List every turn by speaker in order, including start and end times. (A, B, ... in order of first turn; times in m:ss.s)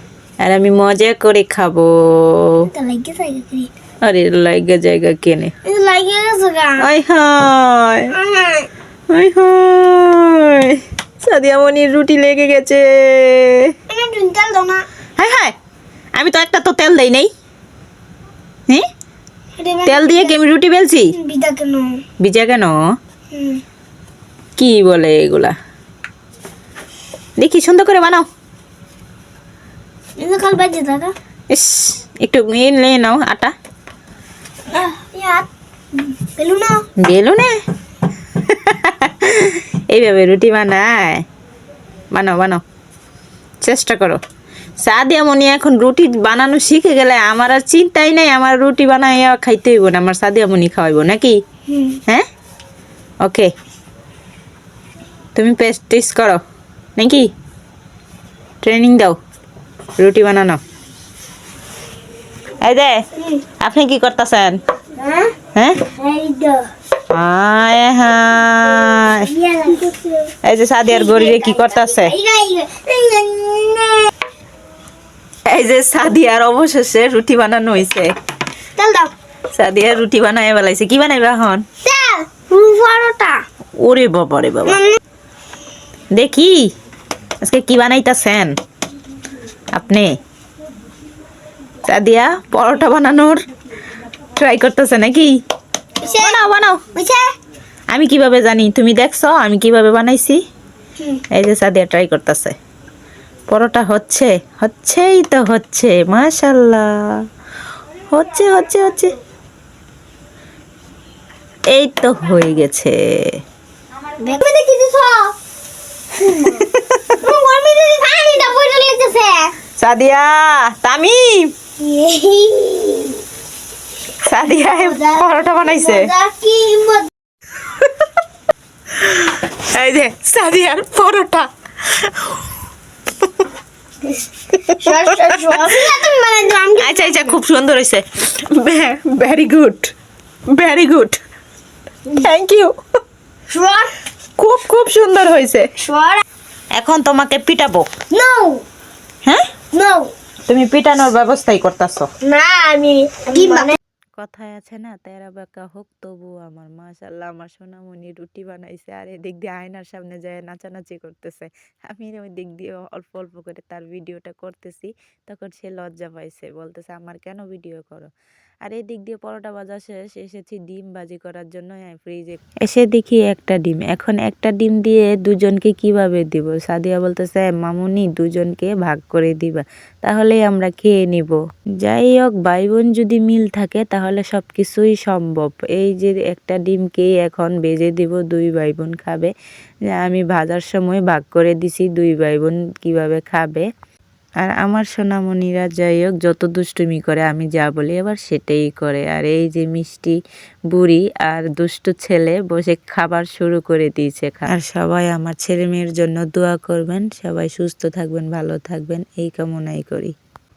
0:00.4-0:02.6 A
0:02.7-0:03.7 B
0:04.0-0:05.5 A
0:05.6-0:06.9 B
0:06.8-0:08.1 A
0:08.1-0:08.7 B
0:09.1-0:13.7 A
0:13.9-0:14.9 B
0:15.2-0:15.5 A
0:16.2-0:17.3 A
0:19.6-0:20.4 B
0:19.9-0:21.1 A
0:21.1-0:22.0 B
0:22.2-0:22.8 A
0:23.3-0:23.6 B
0:24.6-0:25.6 A
0:27.4-0:28.3 A
0:30.2-0:31.1 B
0:31.5-0:33.5 A
0:34.7-0:36.8 B
0:37.0-0:37.6 A
0:38.4-0:41.2 A
0:42.1-0:42.6 A
0:43.6-0:44.2 A
0:44.8-0:51.4 A
0:51.7-0:52.0 B
0:53.2-0:53.5 A
0:55.4-0:56.4 A
0:57.0-0:57.3 A
0:58.6-0:59.2 A
1:00.0-1:00.6 A
1:02.6-1:03.0 A
1:03.2-1:03.4 B
1:03.6-1:04.6 A
1:05.0-1:06.7 B
1:05.6-1:05.8 A
1:07.1-1:09.2 A
1:09.1-1:10.3 B
1:10.5-1:12.1 A
1:10.9-1:14.1 B
1:15.5-1:18.1 A
1:18.8-1:19.1 B
1:19.5-1:21.6 A
1:21.8-1:23.4 B
1:23.8-1:24.8 A
1:24.7-1:25.0 B
1:26.1-1:26.7 A
1:27.4-1:28.5 A
1:29.7-1:30.1 A
1:31.8-1:33.5 A
1:34.4-1:35.4 A
1:36.0-1:37.3 B
1:36.1-1:36.8 A
1:37.9-1:40.4 A
1:41.3-1:42.5 A
1:43.5-1:47.0 A
1:48.1-1:49.2 A
1:51.7-1:53.4 A
1:54.2-1:55.3 B
1:56.2-1:59.6 B
1:56.4-1:57.0 A
1:59.8-2:01.5 A
2:01.8-2:03.2 B
2:04.3-2:06.1 A
2:04.4-2:07.1 B
2:09.0-2:12.3 A
2:14.1-2:17.4 B
2:14.5-2:14.9 A
2:16.8-2:19.9 A
2:20.5-2:21.2 A
2:22.2-2:22.8 A
2:23.5-2:23.9 B
2:24.4-2:25.7 A
2:25.8-2:26.2 B
2:26.8-2:27.9 A
2:28.1-2:28.6 B
2:29.7-2:30.1 B
2:30.5-2:32.1 A
2:32.2-2:33.8 B
2:34.2-2:48.1 A
2:48.6-3:09.3 A
3:09.9-3:13.7 A
3:14.4-3:20.2 A
3:20.7-3:30.1 A